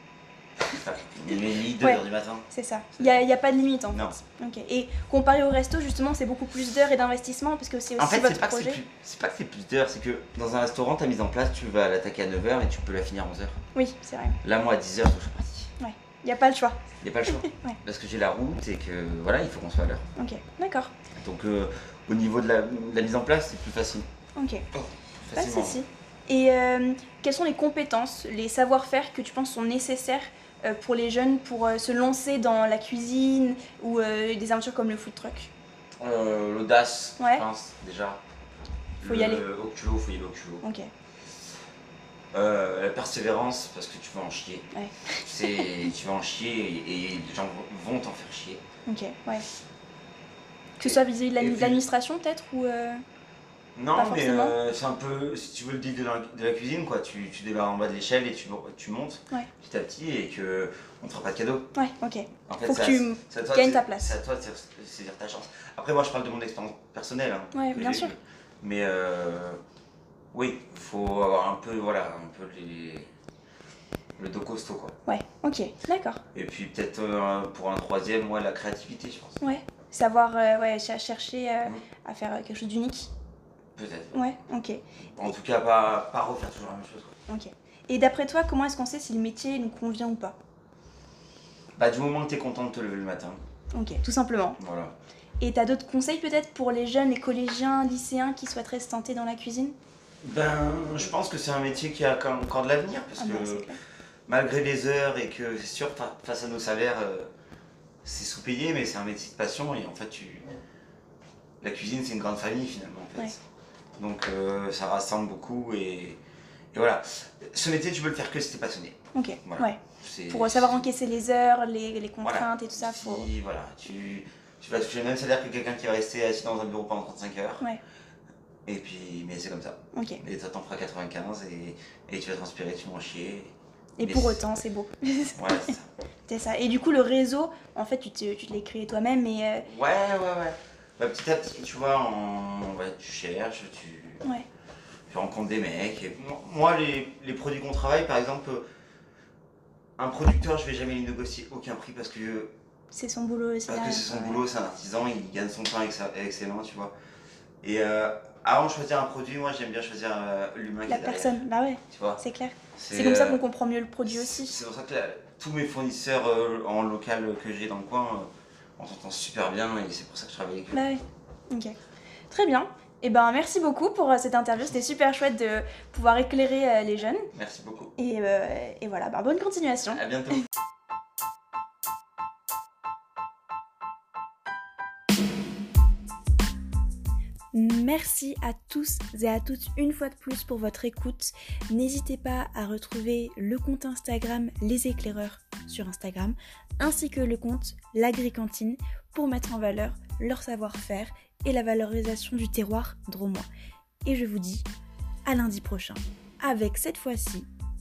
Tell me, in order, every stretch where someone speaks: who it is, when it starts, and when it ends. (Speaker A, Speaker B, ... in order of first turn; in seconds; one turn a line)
Speaker A: 0.7-3.2
Speaker B: 1.8-8.8
Speaker A: 3.9-4.2
Speaker A: 8.0-13.6
Speaker B: 13.7-14.4
Speaker A: 14.4-15.7
Speaker B: 15.8-17.8
Speaker A: 17.0-20.0
Speaker B: 20.2-20.9
Speaker A: 21.1-24.1
Speaker B: 24.4-24.7
Speaker A: 24.7-25.8
Speaker B: 25.4-35.5
Speaker A: 36.0-38.2
Speaker B: 37.2-37.5
Speaker A: 39.0-40.6
Speaker B: 39.0-39.5
Speaker B: 40.6-40.9
Speaker A: 42.3-44.7
Speaker B: 44.7-45.7
Speaker A: 45.2-48.6
Speaker B: 48.9-49.5
Speaker B: 50.8-53.0
Speaker A: 50.8-51.8
Speaker A: 53.8-61.7
Speaker B: 54.0-54.6
Speaker B: 61.8-64.1
Speaker A: 62.5-69.6
Speaker B: 67.5-68.1
Speaker A: 70.3-73.1
Speaker A: 74.2-75.0
Speaker B: 75.1-76.2
Speaker A: 76.3-79.4
Speaker B: 79.4-83.1
Speaker A: 83.8-84.2
Speaker B: 84.1-84.8
Speaker A: 85.1-87.2
Speaker B: 87.3-90.4
Speaker A: 91.8-93.4
Speaker B: 93.7-94.6
Speaker A: 94.6-94.9
Speaker B: 95.4-99.8
Speaker A: 100.2-103.7
Speaker B: 103.2-103.8
Speaker A: 104.3-107.3
Speaker A: 108.0-110.5
Speaker A: 111.6-113.4
Speaker A: 114.0-116.2
Speaker A: 116.7-120.9
Speaker B: 119.1-123.3
Speaker A: 122.2-127.6
Speaker A: 128.7-134.4
Speaker B: 129.9-130.2
Speaker B: 134.0-135.7
Speaker A: 135.4-135.9
Speaker B: 136.3-139.7
Speaker A: 139.7-144.2
Speaker A: 145.1-148.6
Speaker A: 150.0-152.5
Speaker B: 152.9-154.4
Speaker A: 153.7-156.9
Speaker A: 157.6-161.4
Speaker B: 160.9-164.6
Speaker A: 161.9-162.2
Speaker A: 162.8-163.4
Speaker A: 164.1-170.8
Speaker B: 170.7-171.8
Speaker B: 172.3-177.3
Speaker A: 177.3-177.9
Speaker B: 178.0-180.0
Speaker A: 179.9-180.4
Speaker B: 187.5-203.5
Speaker B: 204.1-204.7
Speaker B: 205.3-207.5